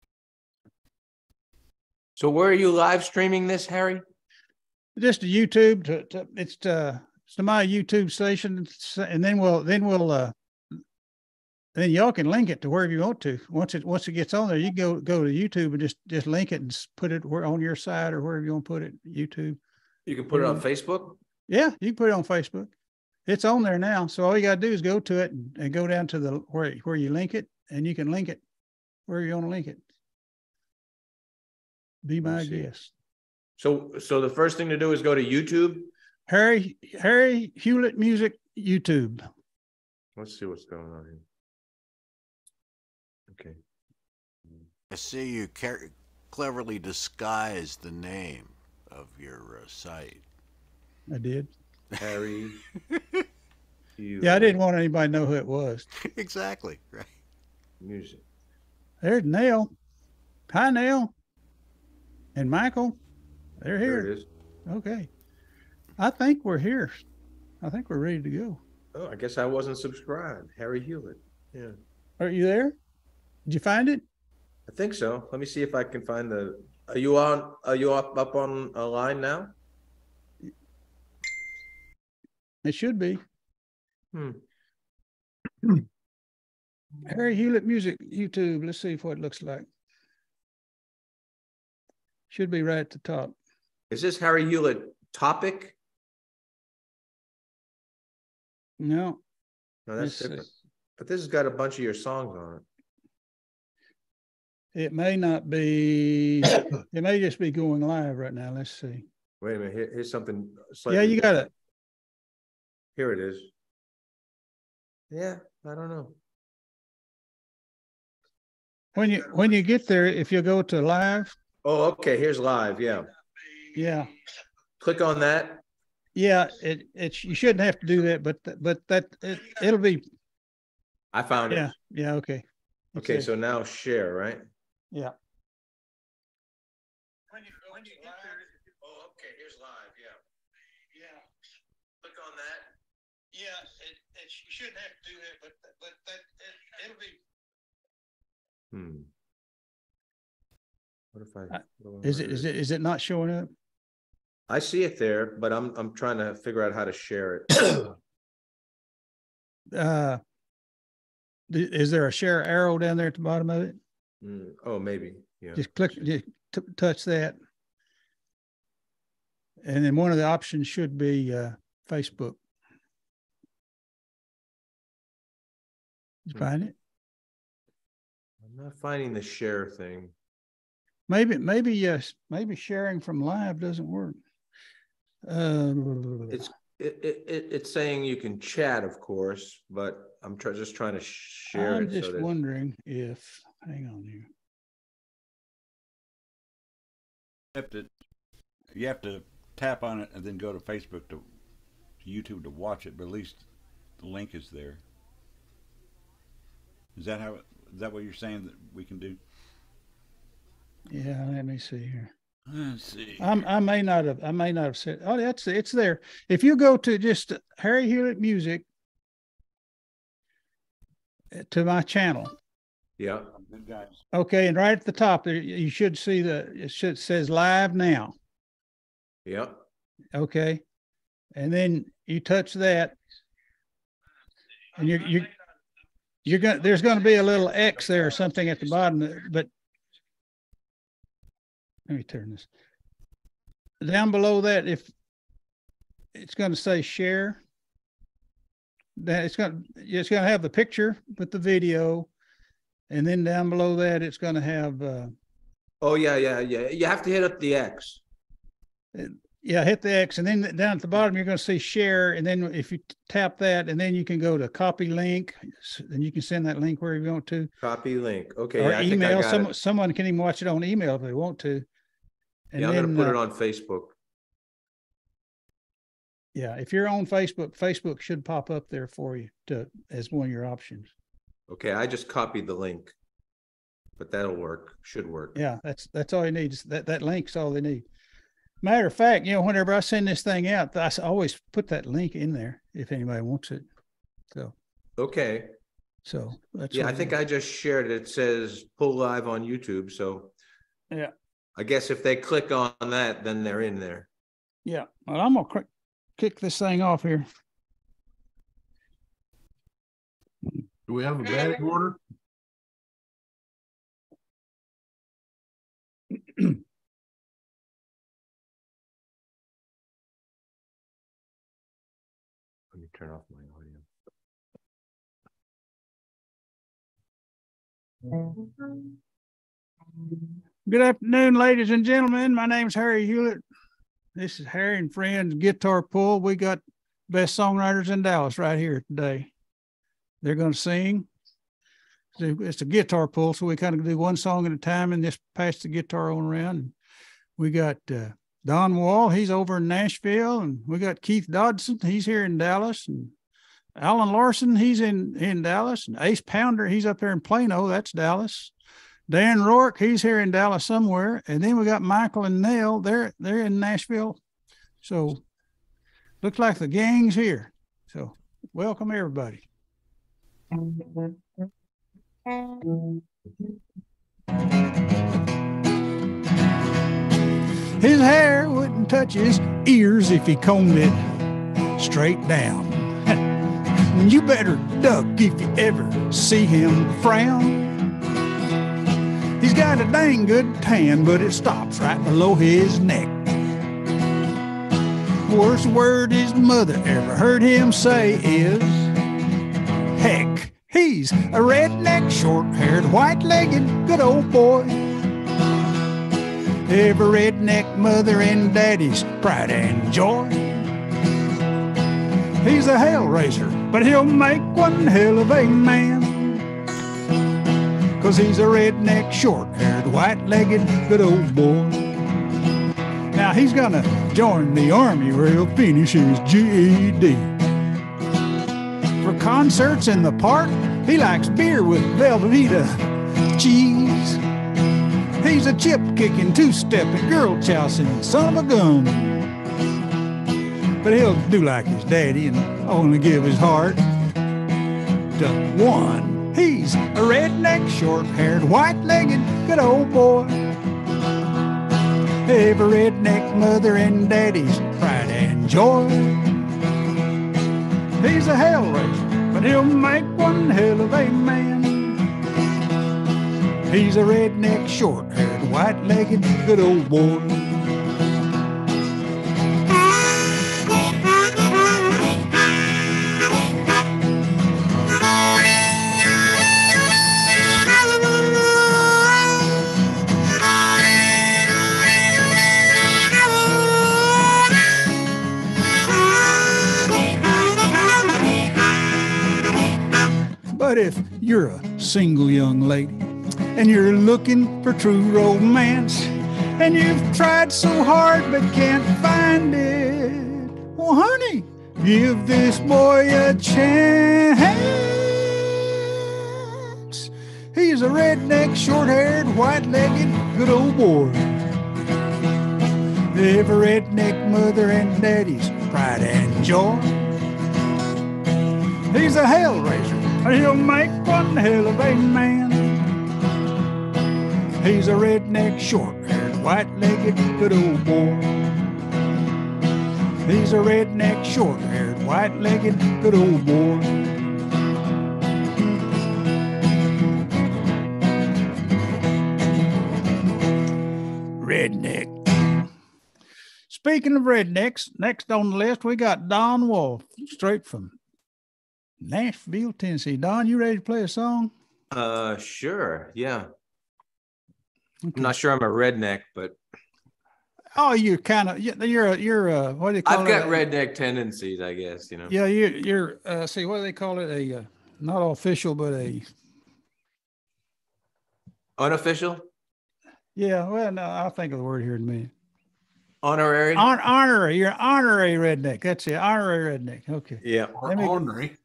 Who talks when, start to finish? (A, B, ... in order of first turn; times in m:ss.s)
0:02.2-0:04.0 A
0:05.0-0:10.3 B
0:11.8-0:19.6 B
0:20.1-0:21.2 A
0:20.3-0:20.6 B
0:21.5-0:22.7 B
0:23.3-0:28.4 B
0:29.1-0:29.8 B
0:32.0-0:32.9 B
0:32.2-0:32.7 A
0:33.6-0:35.9 A
0:36.3-0:39.2 B
0:40.2-0:41.2 A
0:43.3-0:43.6 A
0:44.9-0:50.2 C
0:51.1-0:51.5 B
0:52.0-0:52.6 A
0:52.9-0:53.2 C
0:54.0-0:54.6 A
0:54.2-0:55.9 B
0:56.0-0:57.2 C
0:57.8-0:58.2 A
0:59.0-0:59.7 B
1:00.5-1:01.1 B
1:02.4-1:03.0 B
1:03.6-1:04.1 B
1:03.8-1:04.3 A
1:04.7-1:05.1 B
1:06.0-1:07.0 B
1:07.6-1:08.6 B
1:09.0-1:11.8 A
1:12.2-1:12.8 B
1:13.5-1:14.0 B
1:14.7-1:19.5 A
1:22.6-1:23.2 B
1:24.1-1:24.4 A
1:27.1-1:29.7 B
1:32.3-1:33.4 B
1:33.9-1:35.8 A
1:38.8-1:39.2 B
1:39.9-1:42.6 A
1:40.0-1:40.5 B
1:44.8-1:49.1 B
1:49.4-1:51.5 A
1:50.9-1:51.5 B
1:53.0-1:53.5 A
1:55.1-1:56.2 A
1:59.0-2:01.4 B
2:01.6-2:03.1 A
2:03.8-2:04.1 B
2:04.8-2:05.6 A
2:06.2-2:10.0 B
2:11.1-2:11.7 A
2:11.5-2:12.4 B
2:13.0-2:13.3 B
2:13.0-2:14.4 A
2:17.5-2:18.3 B
2:18.8-2:20.2 A
2:22.0-2:22.7 A
2:23.4-2:27.2 B
2:28.7-2:29.1 A
2:31.1-2:32.4 A
2:31.5-2:33.5 B
2:34.5-2:38.0 A
2:39.7-2:40.2 B
2:41.5-2:43.8 B
2:44.2-2:46.0 A
2:45.6-2:47.4 B
2:49.6-2:52.4 B
2:56.3-2:56.7 B
2:58.4-3:00.1 A
3:01.1-3:04.2 B
3:05.3-3:06.5 B
3:06.3-3:12.3 A
3:11.5-3:14.3 B
3:17.5-3:17.9 D
3:18.7-3:21.2 D
3:22.0-3:23.4 D
3:24.0-3:24.8 D
3:27.0-3:29.2 D
3:30.9-3:32.1 B
3:32.5-3:33.3 D
3:33.2-3:38.6 B
3:41.3-3:42.3 B
3:43.0-3:43.3 A
3:43.3-3:44.0 D
3:44.1-3:48.2 B
3:49.3-3:49.6 A
3:50.1-3:50.6 B
3:51.4-3:53.0 B
3:54.8-3:55.3 B
3:56.2-3:59.5 B
4:01.9-4:02.5 B
4:03.8-4:04.9 B
4:06.2-4:07.4 B
4:09.0-4:12.1 B
4:12.9-4:15.1 B
4:15.8-4:18.0 A
4:18.9-4:27.5 B
4:27.6-4:29.5 A
4:28.6-4:31.7 B
4:32.5-4:33.2 B
4:32.6-4:34.0 A
4:36.4-4:40.9 B
4:41.5-4:42.9 A
4:44.0-4:45.4 A
4:45.4-4:47.8 B
4:48.6-4:53.7 B
4:55.0-4:55.5 A
4:56.1-4:57.2 B
4:56.7-5:00.3 A
5:01.6-5:04.1 A
5:04.6-5:05.7 B
5:06.2-5:07.3 B
5:10.9-5:12.0 E
5:22.7-5:23.8 A
5:30.6-5:33.4 B
5:34.2-5:39.3 B
5:40.2-5:41.1 B
5:42.2-5:46.7 B
5:47.4-5:53.1 B
5:53.8-5:58.5 B
5:59.1-6:04.2 B
6:04.8-6:05.2 B
6:06.2-6:09.4 B
6:17.8-6:21.2 B
6:21.8-6:23.2 B
6:23.9-6:27.7 B
6:29.4-6:33.2 B
6:35.3-6:38.9 B
6:40.0-6:44.9 B
6:46.7-6:50.7 B
6:52.4-6:56.5 B
6:58.0-7:01.9 B
7:03.1-7:07.3 B
7:09.0-7:14.2 B
7:15.2-7:19.3 B
7:20.8-7:23.8 B
7:25.1-7:30.5 B
7:32.2-7:36.5 B
7:38.0-7:42.0 B
7:43.7-7:47.6 B
8:10.5-8:31.4 B
8:33.1-8:37.1 B
8:38.9-8:42.9 B
8:44.6-8:48.4 B
8:50.2-8:54.1 B
9:01.4-9:02.2 B
9:03.7-9:08.0 B
9:09.0-9:11.5 B
9:11.9-9:13.5 A
9:15.1-9:15.4 B
9:15.2-9:16.6 A
9:17.8-9:20.6 B
9:20.0-9:22.3 A
9:22.3-9:26.3 B
9:28.8-9:29.5 A
9:30.4-9:32.3 B
9:33.2-9:33.9 A
9:33.8-9:38.2 B
9:37.4-9:37.8 A
9:37.8-9:38.6 E